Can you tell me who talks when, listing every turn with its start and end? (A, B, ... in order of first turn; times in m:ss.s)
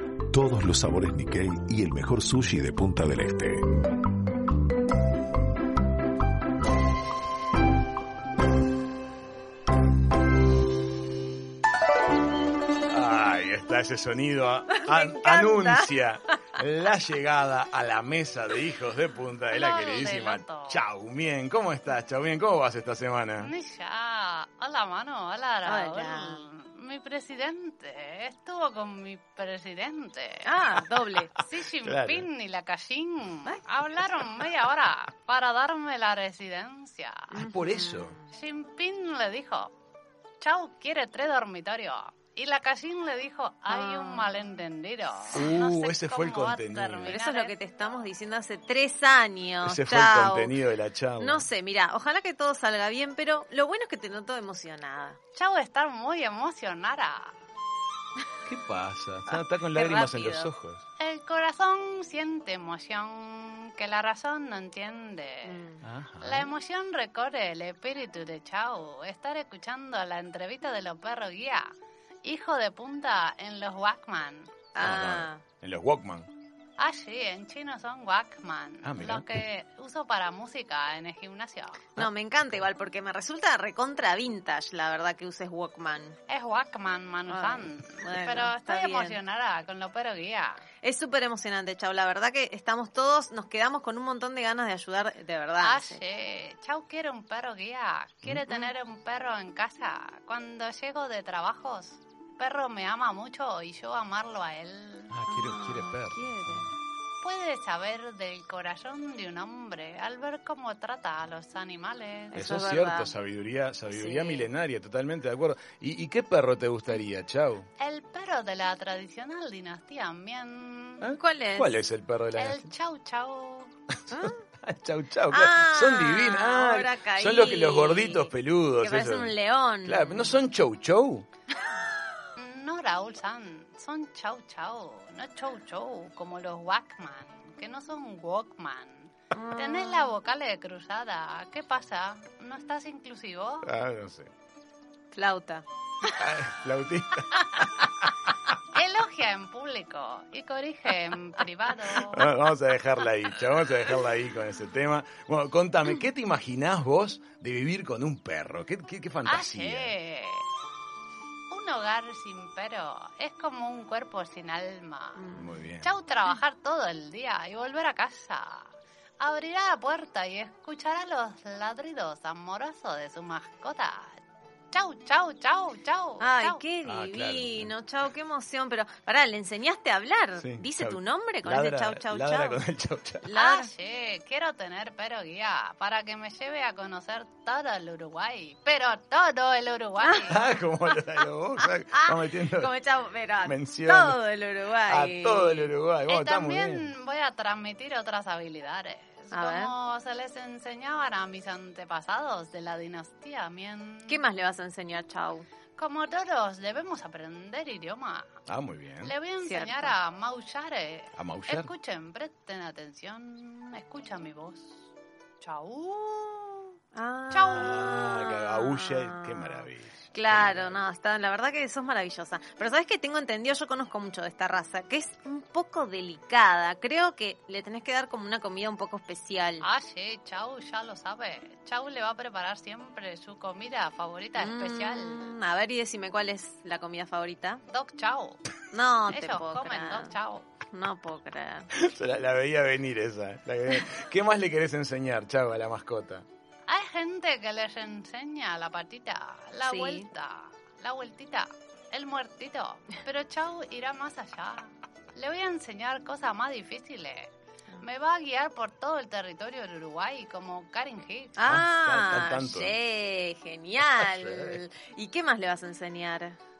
0:00.3-0:03.6 A
0:12.9-0:23.5 B
0:14.7-0:15.9 C
0:19.5-0:20.8 D
0:23.4-0:30.5 D
0:25.6-0:26.4 C
0:30.4-0:31.4 C
0:31.3-0:37.4 D
0:31.8-0:32.3 B
0:37.3-0:38.2 C
0:37.4-0:38.2 B
0:38.3-0:39.7 D
0:40.4-0:47.6 D
0:43.7-0:44.3 C
0:45.3-0:47.2 B
0:47.0-0:50.6 C
0:49.6-0:51.5 B
0:51.2-0:55.2 C
0:55.3-0:57.4 D
0:58.4-1:00.8 B
0:59.3-1:00.5 C
1:01.0-1:05.6 D
1:05.4-1:05.8 C
1:05.8-1:06.5 B
1:06.2-1:14.7 D
1:14.7-1:15.4 C
1:14.8-1:16.3 B
1:16.8-1:21.9 D
1:18.8-1:19.4 B
1:21.9-1:26.2 C
1:26.3-1:30.6 D
1:27.3-1:29.2 C
1:30.8-1:36.0 C
1:35.6-1:45.1 D
1:45.1-1:46.7 B
1:45.3-1:46.7 C
1:47.2-1:52.4 D
1:52.3-1:53.1 C
1:52.3-1:57.7 B
1:53.9-1:54.5 C
1:57.8-2:01.1 D
2:01.0-2:02.7 B
2:01.1-2:01.7 C
2:02.3-2:03.7 D
2:04.1-2:09.3 B
2:04.1-2:04.4 C
2:05.3-2:10.3 C
2:09.8-2:11.2 B
2:12.4-2:23.7 D
2:19.3-2:20.1 C
2:23.6-2:24.3 B
2:25.1-2:25.6 C
2:26.2-2:28.1 B
2:28.7-2:32.3 D
2:32.0-2:40.0 B
2:39.2-2:40.4 D
2:41.5-2:45.3 D
2:45.2-2:45.6 C
2:45.3-2:45.9 B
2:45.8-2:54.2 D
2:54.7-2:56.6 D
2:56.2-3:02.6 C
2:56.8-2:57.7 B
3:00.4-3:03.3 B
3:03.2-3:03.7 C
3:03.3-3:10.4 D
3:10.3-3:12.7 B
3:11.9-3:15.7 C
3:13.4-3:14.2 B
3:14.9-3:16.9 B
3:16.1-3:24.2 D
3:19.3-3:19.7 C
3:24.1-3:25.5 C
3:25.8-3:28.3 D
3:28.5-3:29.1 B
3:29.0-3:34.9 D
3:29.4-3:29.9 C
3:31.2-3:31.7 B
3:35.4-3:36.7 D
3:36.9-3:49.6 C
3:37.3-3:37.8 D
3:37.5-3:40.8 B
3:49.6-3:55.3 D
3:54.4-3:57.6 C
3:57.7-3:58.5 D
3:58.7-4:00.1 C
3:59.1-4:00.5 D
4:00.7-4:01.7 C
4:01.8-4:06.2 B
4:06.7-4:21.4 D
4:09.6-4:10.1 C
4:21.4-4:26.4 C
4:21.4-4:22.8 B
4:24.0-4:24.6 B